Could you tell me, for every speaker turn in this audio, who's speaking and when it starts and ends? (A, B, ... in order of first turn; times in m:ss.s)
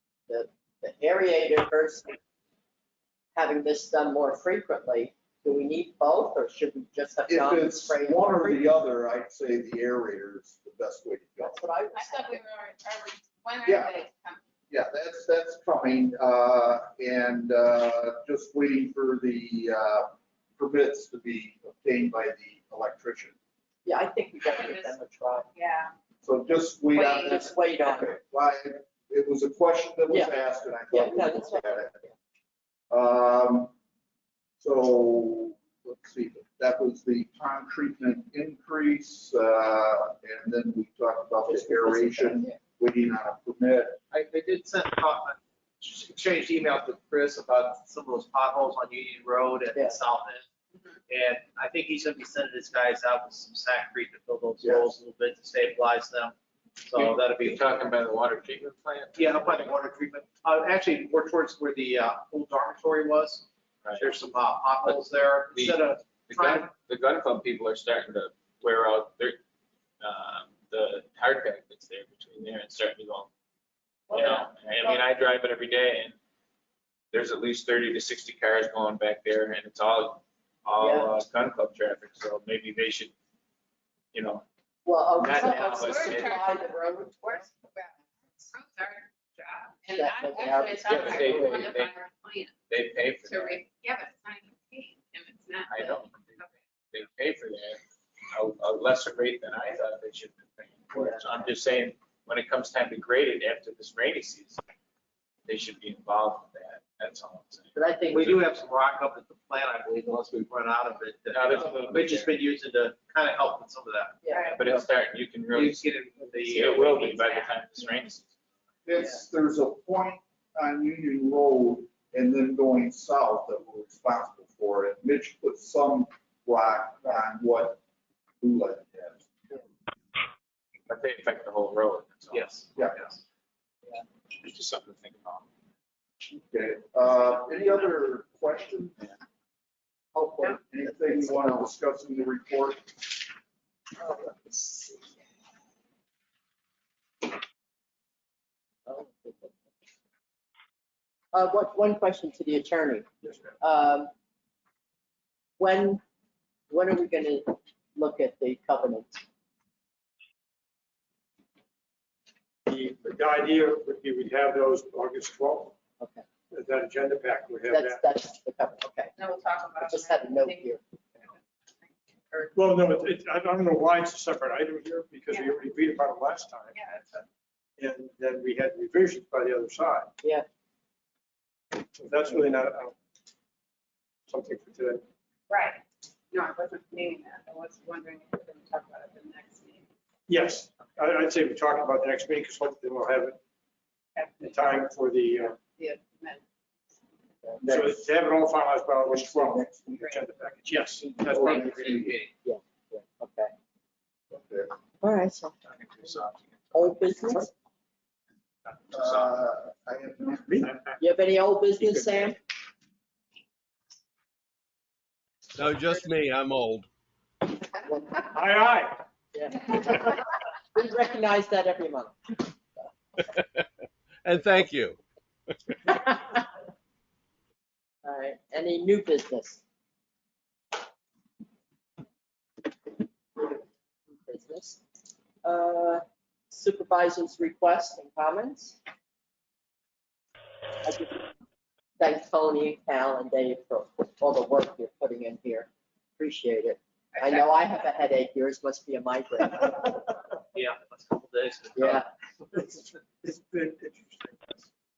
0:00.3-0:02.2 A
0:03.3-0:08.7 A
0:07.3-0:11.6 B
0:11.4-0:12.4 A
0:11.9-0:14.4 C
0:13.6-0:14.0 B
0:14.7-0:23.3 B
0:23.8-0:25.5 A
0:24.4-0:24.9 C
0:25.5-0:25.9 C
0:26.2-0:32.0 B
0:26.9-0:27.4 C
0:27.2-0:28.1 A
0:30.1-0:30.3 A
0:30.9-0:32.1 A
0:32.9-0:33.7 B
0:34.6-0:44.0 B
0:41.4-0:42.6 A
0:44.1-0:50.4 D
0:51.1-0:57.8 D
0:54.6-0:54.9 B
0:56.9-0:59.7 E
0:59.1-1:06.7 D
1:03.8-1:04.1 E
1:04.8-1:09.4 E
1:10.0-1:13.3 E
1:14.1-1:16.2 E
1:17.1-1:23.1 E
1:20.8-1:21.1 A
1:24.1-1:24.4 E
1:24.8-1:27.5 A
1:25.2-1:26.4 E
1:25.4-1:27.9 C
1:28.5-1:32.5 C
1:29.9-1:31.7 A
1:30.8-1:31.9 E
1:32.7-1:33.6 E
1:33.3-1:36.5 C
1:35.7-1:37.8 E
1:38.3-1:44.6 E
1:40.9-1:41.2 A
1:45.4-1:48.4 E
1:47.7-1:48.3 A
1:48.1-1:54.9 D
1:51.3-1:52.4 E
1:54.2-1:54.5 A
1:54.3-1:54.6 C
1:54.5-1:58.3 E
1:55.5-1:57.3 D
1:58.8-2:07.8 B
2:08.4-2:09.6 B
2:10.9-2:12.5 E
2:12.3-2:13.2 D
2:14.4-2:15.4 E
2:16.5-2:19.0 B
2:20.1-2:23.0 B
2:20.9-2:21.7 A
2:24.0-2:25.1 A
2:28.8-2:29.6 A
2:31.3-2:33.0 A
2:33.2-2:33.5 F
2:33.6-2:34.1 A
2:35.6-2:36.0 A
2:36.7-2:39.2 A
2:42.6-2:45.7 F
2:46.0-2:46.2 A
2:46.5-2:48.0 F
2:47.7-2:49.1 A
2:49.2-2:52.6 C
2:49.8-2:50.8 A
2:52.5-2:56.8 F
2:55.3-2:55.6 C
2:56.7-2:57.2 C
2:57.8-3:00.1 F
3:01.9-3:02.9 F
3:04.3-3:05.0 F
3:05.5-3:09.8 C
3:10.3-3:13.4 F
3:14.1-3:14.9 C
3:14.4-3:15.6 F
3:15.7-3:16.4 C
3:17.6-3:18.1 B
3:17.6-3:21.6 F
3:19.1-3:20.1 B
3:20.0-3:20.2 C
3:21.0-3:21.6 A
3:21.3-3:22.3 D
3:21.3-3:22.2 B
3:22.4-3:23.5 A
3:24.3-3:24.7 B
3:25.0-3:25.6 A
3:25.7-3:27.0 E
3:26.7-3:27.5 A
3:28.9-3:30.7 B
3:29.0-3:29.3 E
3:31.0-3:32.4 A
3:35.5-3:36.9 G
3:38.3-3:39.0 F
3:39.3-3:42.3 A
3:44.2-3:45.0 G
3:48.0-3:49.6 A
3:54.1-3:54.8 A
3:55.4-3:58.8 A
4:00.8-4:01.3 A
4:02.0-4:09.9 A
4:10.5-4:12.0 D
4:11.8-4:12.1 A
4:12.5-4:14.6 F